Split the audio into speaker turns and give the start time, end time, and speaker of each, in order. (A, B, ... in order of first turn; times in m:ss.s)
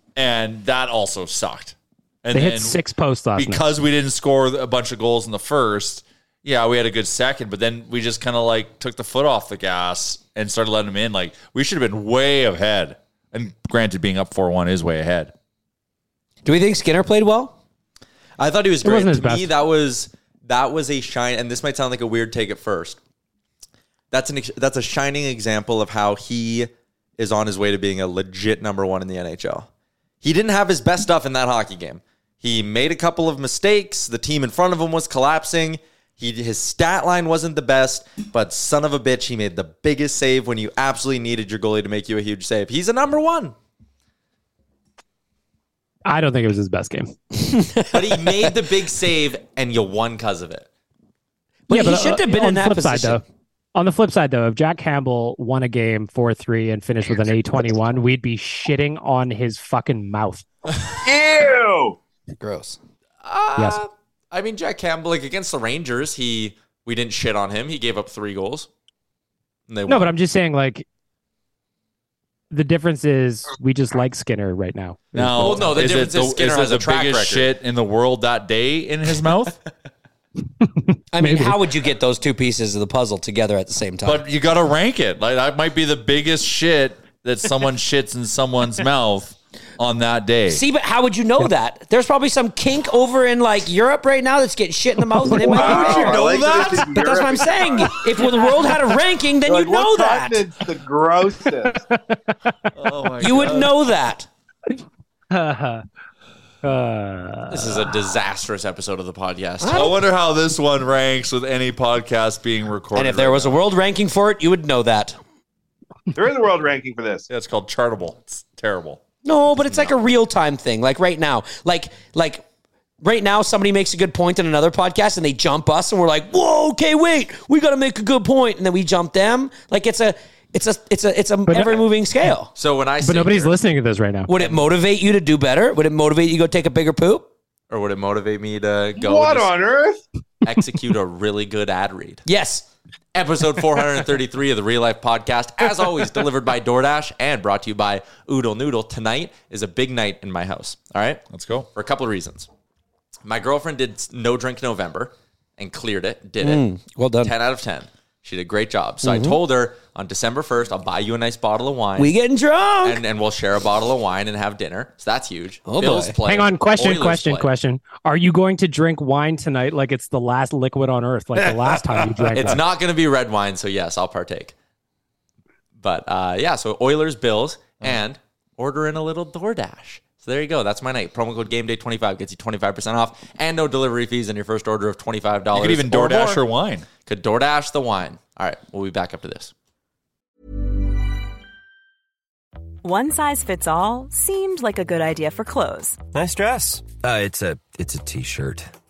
0:00.2-0:02.8 A
0:02.3-0:03.6 B
0:03.4-0:15.3 A
0:16.4-0:17.6 C
0:18.4-0:23.0 D
0:18.8-0:19.5 B
0:24.1-0:29.7 D
0:30.2-0:43.6 D
0:46.1-0:47.1 B
0:47.4-0:48.3 C
0:47.9-0:50.7 D
0:51.7-0:53.2 C
0:51.7-0:53.2 B
0:53.8-1:00.5 B
1:01.0-1:02.0 E
1:02.4-1:02.8 C
1:03.2-1:08.7 D
1:09.7-1:10.1 D
1:09.9-1:10.8 B
1:12.5-1:15.8 B
1:15.2-1:19.6 A
1:15.4-1:17.5 D
1:21.1-1:24.2 C
1:21.2-1:21.6 B
1:24.0-1:30.6 A
1:30.5-1:40.4 C
1:35.2-1:35.8 B
1:35.4-1:38.0 E
1:35.6-1:36.8 A
1:39.4-1:41.8 E
1:42.8-1:43.8 A
1:43.2-1:44.3 C
1:45.3-1:45.8 B
1:46.6-1:47.8 B
1:47.5-1:50.0 D
1:49.6-1:50.0 C
1:49.7-1:53.6 A
1:53.0-1:55.2 C
1:56.1-1:57.3 E
1:57.3-1:59.0 A
1:59.2-2:02.4 C
2:03.0-2:12.5 C
2:11.5-2:11.8 B
2:12.6-2:13.6 D
2:13.0-2:14.3 B
2:14.3-2:17.3 C
2:17.7-2:19.6 D
2:19.0-2:20.0 E
2:20.4-2:22.2 D
2:22.3-2:22.6 C
2:23.1-2:31.2 D
2:31.3-2:31.7 A
2:31.8-2:32.5 D
2:33.2-2:36.6 D
2:36.4-2:37.3 C
2:37.2-2:42.2 D
2:39.0-2:39.4 C
2:42.0-2:43.0 C
2:42.8-2:47.5 D
2:45.7-2:46.2 C
2:46.2-2:52.6 B
2:52.3-2:54.6 D
2:55.8-3:06.4 D
3:05.5-3:06.9 A
3:07.1-3:09.5 D
3:12.8-3:16.0 F
3:16.2-3:18.7 G